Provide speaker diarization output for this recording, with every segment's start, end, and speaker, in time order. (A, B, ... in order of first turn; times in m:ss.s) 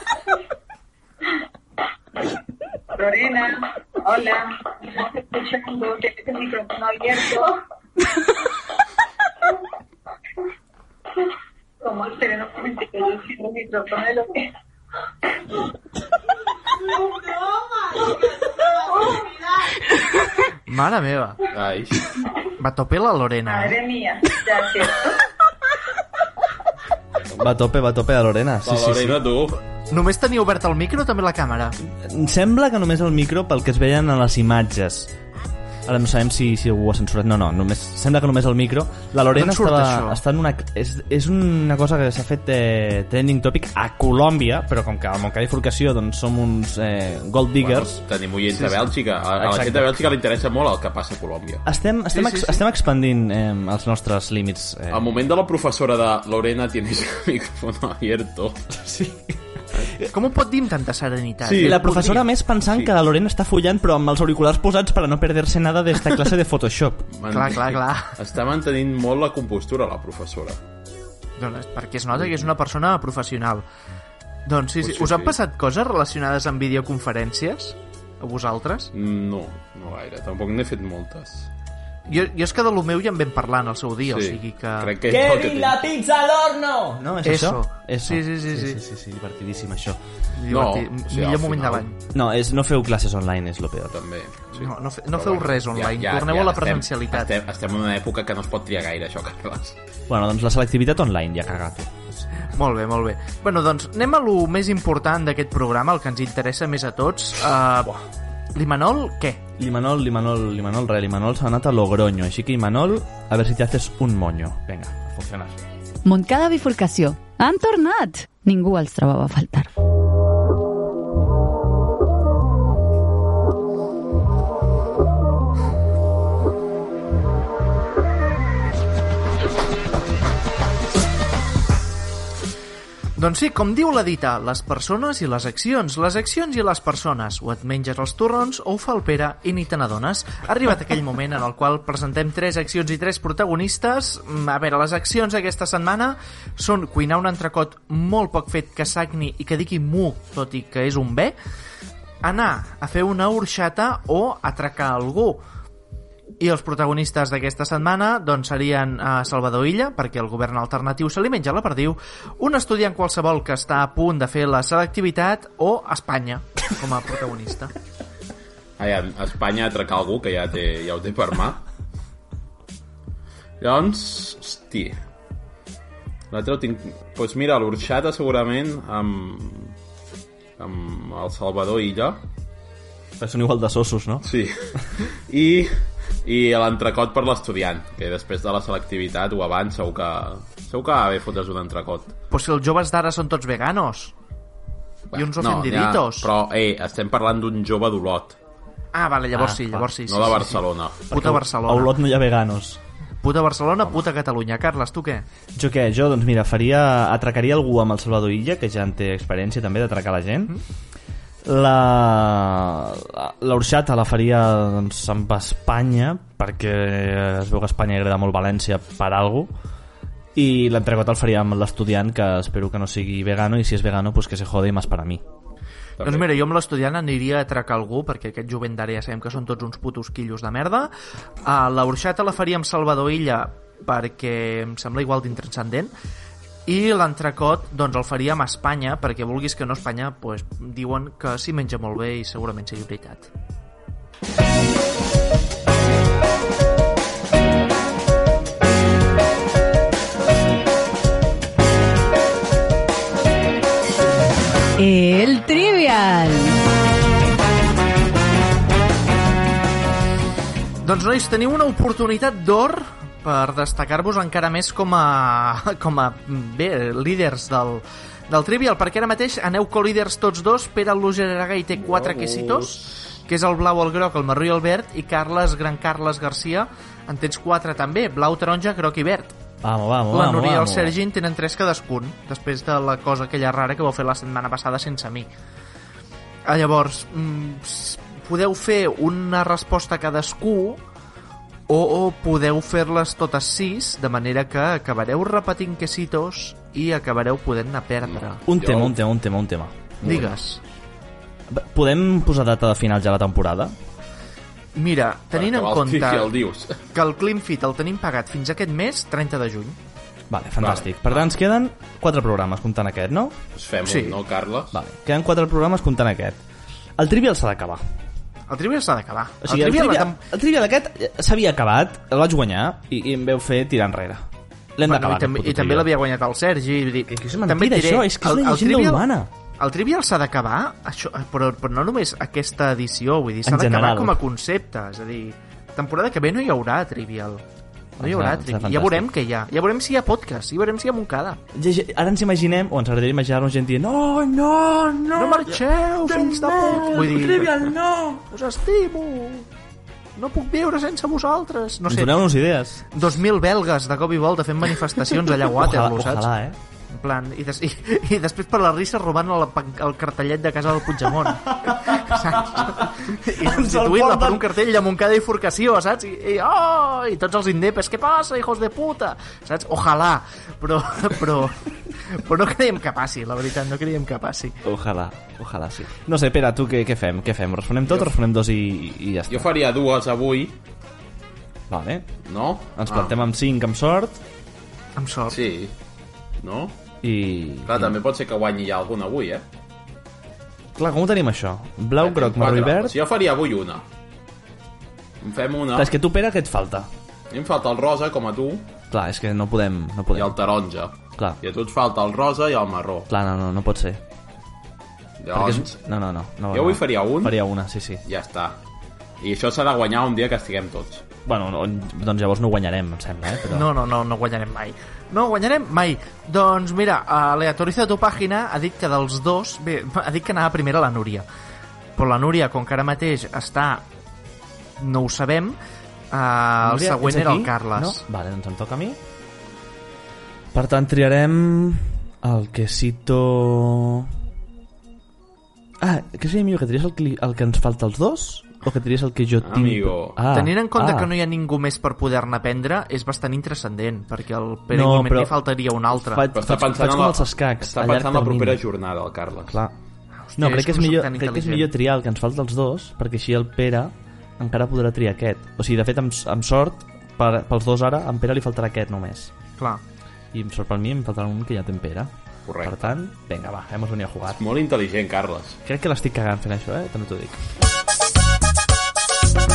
0:02.9-0:07.6 A
0:11.8-0:14.5 A
0:18.9-0:19.2 A
0:20.7-0:21.4 B
0:21.5-0:22.1 C
0:22.6-0:23.8 B
0:23.5-0:25.2 A
0:27.4-0:29.2 D
0:28.6-0:29.6 C
0:29.9-0:31.8 B
0:32.0-0:35.1 D
0:35.9-0:48.0 D
0:39.3-0:40.2 B
0:47.6-0:51.7 C
0:49.4-0:50.0 D
0:51.6-0:55.1 D
0:52.1-0:52.6 B
0:54.9-0:58.6 C
0:58.7-1:00.1 D
1:00.1-1:02.3 B
1:01.4-1:02.1 C
1:01.6-1:07.1 D
1:07.1-1:10.6 C
1:07.3-1:08.2 B
1:11.4-1:13.6 B
1:14.4-1:18.9 B
1:14.8-1:15.4 C
1:18.9-1:21.5 C
1:22.1-1:24.9 B
1:24.1-1:25.8 C
1:25.0-1:30.0 D
1:27.2-1:28.8 B
1:30.4-1:32.0 B
1:30.5-1:31.8 C
1:32.1-1:34.0 D
1:33.9-1:39.8 C
1:34.5-1:37.3 B
1:40.1-1:42.2 D
1:42.5-1:48.0 B
1:48.6-1:49.4 B
1:49.6-1:55.6 D
1:56.0-1:59.7 E
2:13.2-2:31.4 B
2:32.2-2:35.4 B
2:36.4-2:47.7 B
2:48.8-2:51.6 C
2:53.6-2:55.0 C
2:56.3-2:59.7 C
3:00.6-3:02.2 C
3:03.2-3:04.3 D
3:04.2-3:12.1 C
3:12.3-3:14.1 B
3:15.1-3:18.4 C
3:15.1-3:16.3 B
3:18.9-3:21.9 B
3:19.3-3:19.9 D
3:20.1-3:21.0 C
3:21.1-3:22.8 D
3:23.2-3:25.2 B
3:25.6-3:30.6 D
3:31.4-3:39.5 D
3:40.4-3:45.2 D
3:46.0-3:46.3 C
3:46.0-3:50.9 B
3:51.4-3:55.9 B
3:56.7-4:03.3 B
4:14.8-4:16.6 E
4:20.8-4:39.3 B
4:31.8-4:32.9 C
4:39.6-4:41.0 D
4:40.1-4:45.3 B
4:46.4-4:50.8 B
4:51.7-4:58.4 B
4:58.1-4:59.0 C
4:58.4-5:00.2 D
5:00.0-5:00.6 B
5:00.0-5:00.3 C
5:01.5-5:03.7 D
5:04.7-5:06.3 B
5:05.3-5:06.8 C
5:06.9-5:09.8 B
5:10.3-5:13.4 D
5:10.6-5:11.3 C
5:13.6-5:14.8 C
5:13.8-5:14.2 B
5:14.7-5:16.4 D
5:17.0-5:17.8 D
5:18.5-5:20.2 B
5:19.4-5:25.9 D
5:24.8-5:29.1 B
5:27.1-5:29.3 D
5:29.6-5:37.4 B
5:33.4-5:34.2 D
5:38.0-5:39.1 D
5:38.0-5:41.4 B
5:41.5-5:48.2 D
5:45.1-5:47.5 B
5:48.3-5:49.5 B
5:50.2-5:52.2 B
5:51.9-5:52.8 D
5:52.9-5:56.3 B
5:55.3-5:56.6 D
5:56.9-6:14.6 B
6:01.3-6:04.5 D
6:14.6-6:19.5 D
6:19.3-6:20.6 C
6:21.7-6:22.1 D
6:22.3-6:23.2 C
6:22.7-6:24.2 D
6:25.0-6:25.4 B
6:25.3-6:25.7 C
6:26.4-6:26.7 C
6:27.0-6:28.0 D
6:27.6-6:29.4 C
6:30.8-6:33.0 D
6:32.0-6:33.8 C
6:35.2-6:35.9 C
6:35.7-6:36.9 D
6:37.3-6:38.7 C
6:38.9-6:40.4 D
6:40.1-6:43.1 C
6:43.1-6:44.0 D
6:45.2-6:45.7 C
6:45.3-6:48.0 D
6:46.5-6:47.4 C
6:48.0-6:48.6 C
6:49.2-6:51.0 C
6:51.3-6:53.7 D
6:53.5-7:01.3 B
7:02.0-7:03.8 B
7:04.8-7:05.6 B
7:06.1-7:08.0 B
7:06.6-7:09.0 D
7:10.5-7:14.1 D
7:15.8-7:21.1 D
7:19.4-7:20.2 C
7:20.3-7:26.2 B
7:24.7-7:25.4 D
7:25.9-7:28.6 D
7:26.3-7:29.6 C
7:29.5-7:29.7 D
7:30.2-7:31.7 B
7:30.4-7:39.3 D
7:40.3-7:44.4 D
7:42.5-7:42.9 C
7:44.4-7:45.6 C
7:45.6-7:47.4 D